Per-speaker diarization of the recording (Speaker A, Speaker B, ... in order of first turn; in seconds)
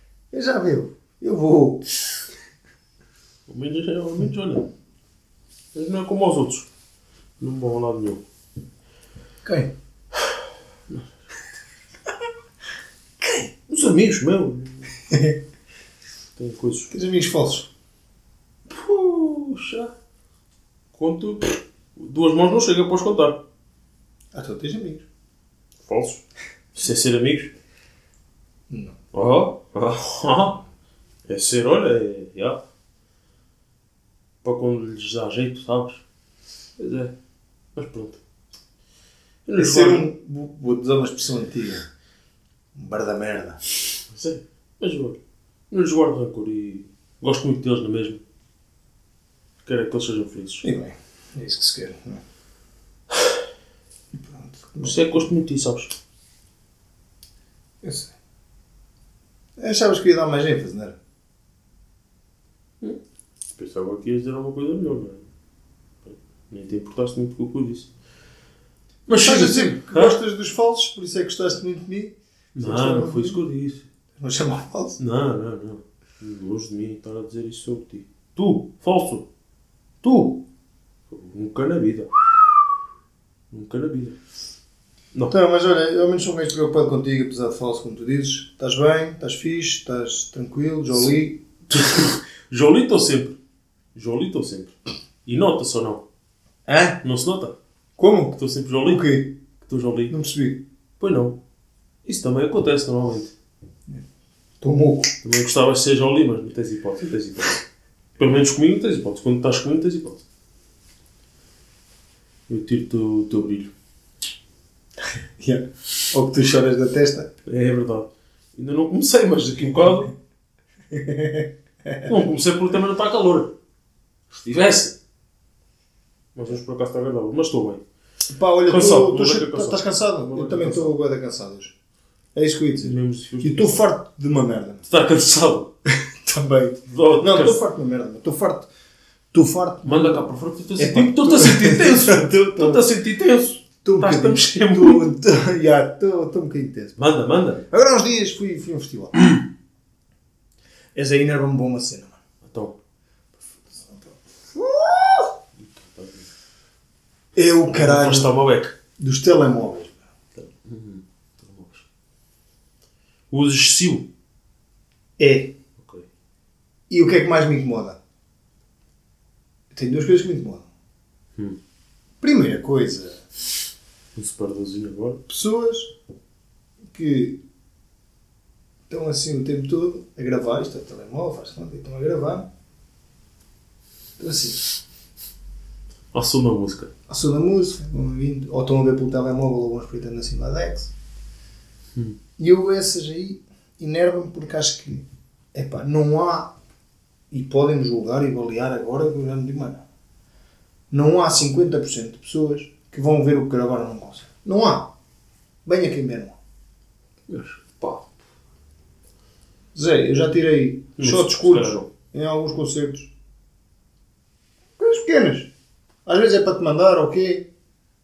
Speaker A: 0.3-1.9, 9.4-9.7, 13.2-13.5, 15.1-15.4, 16.9-17.7, 24.3-25.0, 28.7-28.9, 39.6-41.9, 42.7-43.6, 50.6-52.2, 54.1-55.3, 57.8-58.1, 59.6-61.0, 69.2-73.4, 74.2-75.0, 85.3-91.4, 96.7-97.0, 98.0-99.4, 100.1-100.6, 104.6-105.1, 115.4-117.3, 120.9-122.3, 128.3-131.7, 132.3-134.8, 135.9-138.7, 139.3-142.8, 143.8-147.0, 147.7-149.2, 150.9-152.2, 153.4-155.3, 157.3-158.3, 159.0-160.0, 165.2-165.5, 166.9-168.0, 169.7-170.7, 172.2-173.2, 175.3-175.9, 176.9-177.4, 178.9-182.5, 184.2-184.7, 187.1-190.9, 192.4-196.5, 197.3-199.8, 200.9-204.9, 205.6-206.4, 209.7-213.1, 214.8-215.5, 216.0-217.5
Speaker B: 3.5-4.7, 5.7-6.7, 7.4-8.2, 13.7-14.9, 16.4-16.9, 18.7-19.9, 20.9-23.4, 25.8-26.2, 26.7-27.5, 29.1-30.6, 31.3-32.6, 34.4-36.0, 36.8-37.1, 37.8-38.2, 39.5-40.1, 44.1-45.2, 45.7-48.2, 49.6-50.7, 54.8-55.9, 63.5-65.3, 66.0-67.9, 69.1-70.2, 72.5-73.8, 75.0-79.2, 80.0-80.4, 81.1-82.6, 83.5-84.2, 91.7-93.4, 93.9-96.0, 97.0-97.5, 98.3-99.0, 99.6-100.1, 101.0-101.4, 102.0-103.3, 105.2-107.6, 108.2-110.2, 112.5-113.7, 117.5-120.1, 122.0-123.5, 124.3-125.0, 126.3-127.8, 128.7-130.9, 132.8-133.8, 134.9-135.7, 136.8-137.6, 139.8-145.0, 147.0-147.6, 152.4-152.8, 155.6-156.3, 157.7-158.7, 160.3-161.8, 163.3-164.1, 165.8-166.1, 174.1-175.2, 186.1-186.9, 207.3-208.1, 211.0-211.9